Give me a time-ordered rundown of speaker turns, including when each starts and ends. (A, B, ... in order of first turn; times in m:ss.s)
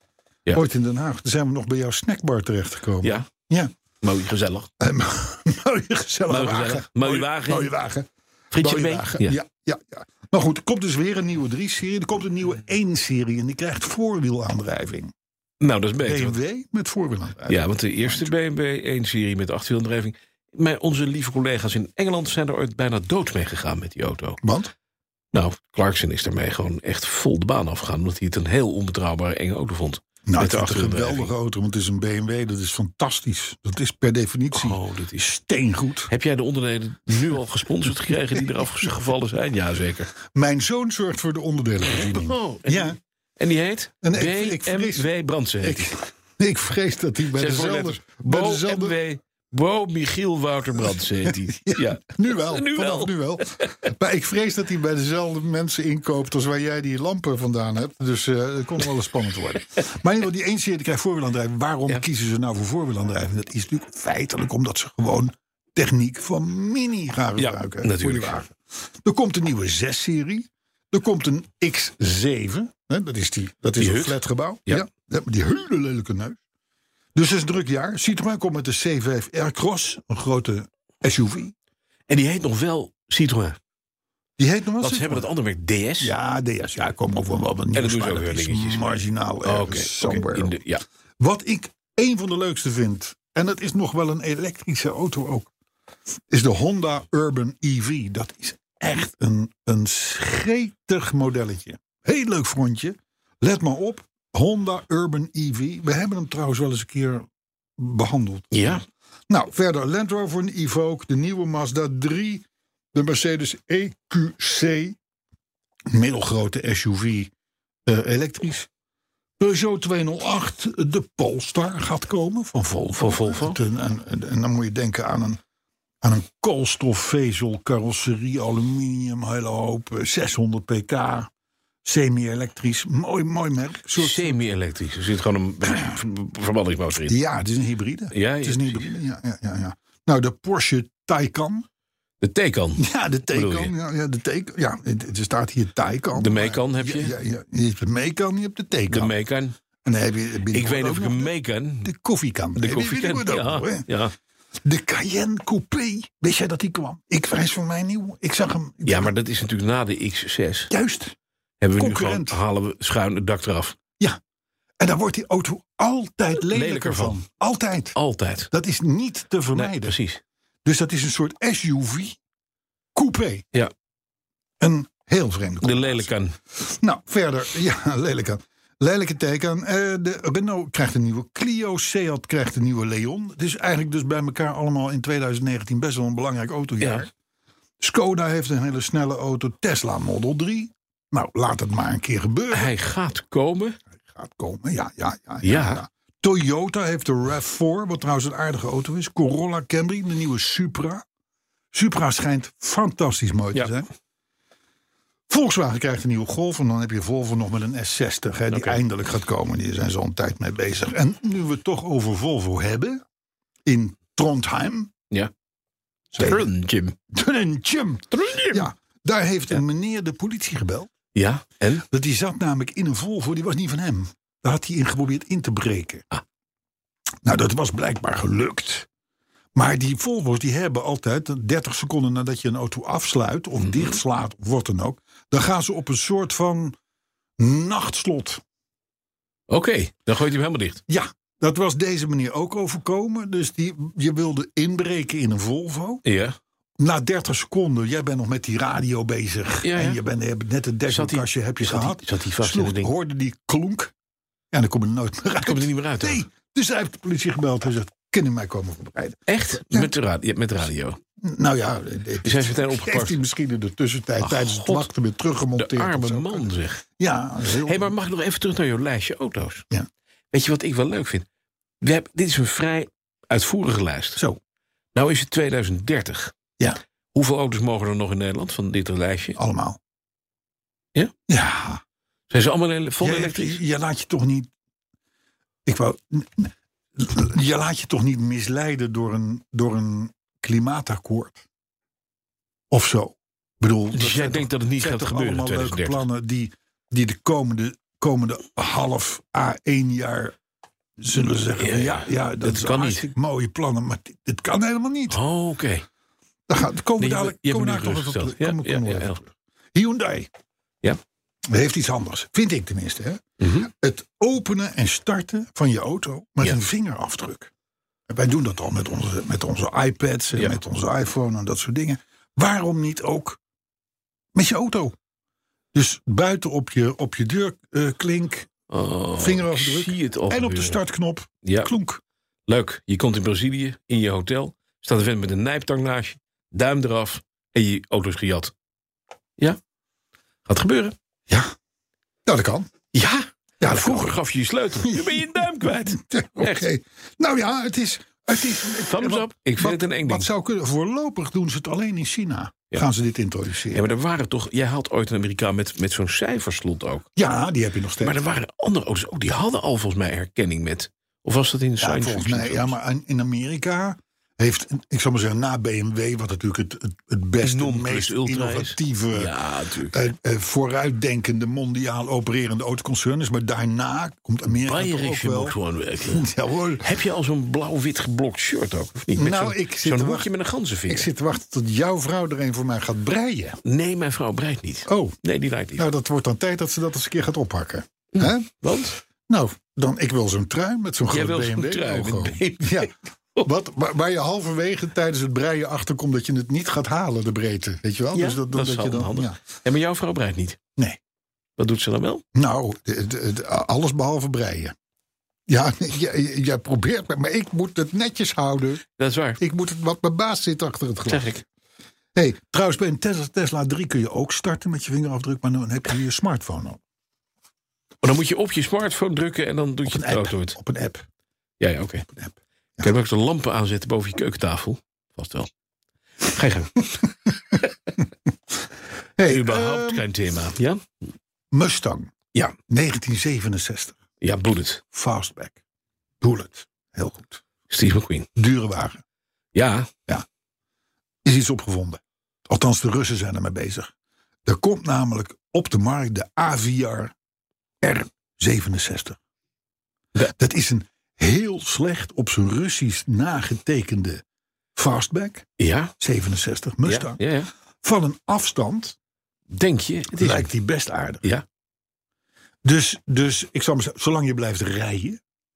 0:00.5-0:03.7 A
0:03.0-0:03.3 B
0:04.0-0:04.7 B
0:04.8-0:15.1 A
0:06.3-0:07.7 B
0:08.5-0:09.4 B
0:15.6-0:16.4 B
0:16.0-0:18.3 A
0:17.5-0:24.4 B
0:24.4-0:24.7 A
0:25.3-0:31.3 B
0:30.3-0:36.1 A
0:34.5-0:35.2 B
0:36.1-0:40.1 B
0:38.1-0:38.4 A
0:40.2-0:43.0 A
0:41.8-0:46.0 B
0:44.0-0:45.1 A
0:45.6-0:49.0 A
0:47.3-0:53.8 B
0:50.8-1:16.4 A
1:07.4-1:08.4 B
1:13.8-1:14.9 B
1:17.1-1:21.5 A
1:22.1-1:23.6 B
1:24.4-1:25.3 A
1:24.8-1:26.1 B
1:26.0-1:30.5 A
1:27.7-1:30.8 B
1:31.2-1:35.5 A
1:36.3-1:55.0 A
1:48.5-1:48.8 B
1:55.9-1:57.3 A
1:57.8-1:58.7 A
1:59.4-2:05.4 A
2:03.0-2:03.6 B
2:06.0-2:11.3 A
2:11.8-2:14.4 A
2:14.0-2:17.2 B
2:17.0-2:21.6 A
2:18.1-2:18.9 B
2:22.2-2:23.7 B
2:22.8-2:29.1 A
2:26.1-2:27.1 B
2:28.9-2:29.6 B
2:29.8-2:31.3 A
2:30.5-2:31.9 B
2:31.8-2:33.8 A
2:32.6-2:34.1 B
2:34.6-2:39.1 A
2:38.8-2:40.7 B
2:40.7-2:41.2 A
2:41.6-2:43.8 B
2:41.8-2:42.4 A
2:44.8-2:47.9 A
2:46.5-2:47.2 B
2:47.9-2:48.5 B
2:48.5-2:50.0 A
2:49.5-2:50.2 B
2:50.6-2:52.2 A
2:52.9-2:53.4 A
2:54.6-3:07.1 A
2:55.6-2:56.4 B
3:06.8-3:07.0 B
3:07.8-3:12.7 A
3:12.5-3:13.8 B
3:13.9-3:21.0 A
3:15.4-3:15.8 B
3:21.7-3:23.9 A
3:25.3-3:33.0 A
3:28.5-3:28.8 B
3:33.6-3:34.9 A
3:36.1-3:36.5 A
3:36.2-3:37.0 B
3:37.1-3:40.9 A
3:38.1-3:38.7 B
3:41.1-3:41.8 B
3:41.9-3:46.0 A
3:47.2-3:48.9 A
3:49.5-3:56.8 A
3:53.6-3:54.0 B
3:57.4-3:58.4 A
3:59.5-4:00.8 B
4:00.9-4:06.0 A
4:06.0-4:06.4 B
4:06.8-4:13.9 A
4:09.6-4:10.0 B
4:10.9-4:12.9 B
4:14.5-4:19.9 A
4:15.4-4:16.2 B
4:19.3-4:21.0 B
4:21.2-4:27.9 A
4:22.2-4:23.2 B
4:24.2-4:24.9 B
4:25.6-4:26.8 B
4:27.6-4:29.6 B
4:30.3-4:31.2 B
4:31.8-4:34.2 B
4:34.9-4:36.3 B
4:37.1-4:39.4 B
4:39.4-4:39.8 A
4:41.3-4:41.8 A
4:42.3-4:43.6 B
4:43.0-4:44.5 A
4:45.6-4:51.4 A
4:52.7-5:00.4 A
4:53.9-4:56.0 B
5:01.0-5:05.2 A
5:01.6-5:03.0 B
5:05.1-5:05.8 B
5:06.5-5:10.3 A
5:07.0-5:09.2 B
5:11.5-5:17.5 A
5:13.4-5:13.7 B
5:18.1-5:23.4 A
5:24.3-5:25.0 A
5:25.7-5:28.5 A
5:28.7-5:30.8 B
5:29.2-5:32.0 A
5:31.4-5:31.7 B
5:32.5-5:38.5 B
5:40.4-5:40.9 B
5:41.3-5:41.5 A
5:42.2-5:42.7 A
5:42.9-5:46.7 B
5:43.6-5:44.2 A
5:44.8-5:53.8 A
5:48.7-5:50.3 B
5:53.7-5:57.1 B
5:57.2-5:58.2 A
5:58.0-6:02.7 B
6:01.8-6:09.3 A
6:07.4-6:09.9 B
6:09.9-6:16.8 A
6:14.6-6:16.3 B
6:16.8-6:21.1 B
6:19.1-6:20.3 A
6:20.9-6:23.6 A
6:23.6-6:25.9 B
6:24.9-6:25.2 A
6:25.8-6:28.5 A
6:28.1-6:29.0 B
6:29.3-6:32.9 A
6:31.1-6:33.5 B
6:33.4-6:39.4 A
6:38.1-6:40.6 B
6:41.6-6:42.2 B
6:42.3-6:44.7 A
6:45.5-6:48.8 A
6:49.0-6:49.4 B
6:49.4-6:51.3 A
6:51.0-6:51.4 B
6:52.1-6:56.8 A
6:58.0-7:00.6 B
6:59.8-7:01.0 A
7:01.6-7:02.1 B
7:02.2-7:02.9 A
7:02.8-7:05.5 B
7:06.2-7:07.0 B
7:09.2-7:10.0 A
7:09.3-7:10.8 B
7:11.5-7:12.1 A
7:12.7-7:14.0 A
7:14.2-7:14.8 B
7:14.9-7:15.6 A
7:16.2-7:17.4 A
7:17.7-7:18.3 B
7:18.4-7:19.0 A
7:19.5-7:19.9 B
7:21.2-7:23.9 A
7:24.4-7:27.1 A
7:27.8-7:29.2 A
7:30.2-7:34.2 A
7:34.7-7:35.4 A
7:35.6-7:35.9 B
7:36.0-7:37.2 A
7:36.8-7:37.5 B
7:37.8-7:39.0 A
7:39.5-7:40.5 B
7:40.2-7:41.3 A
7:42.6-7:45.2 A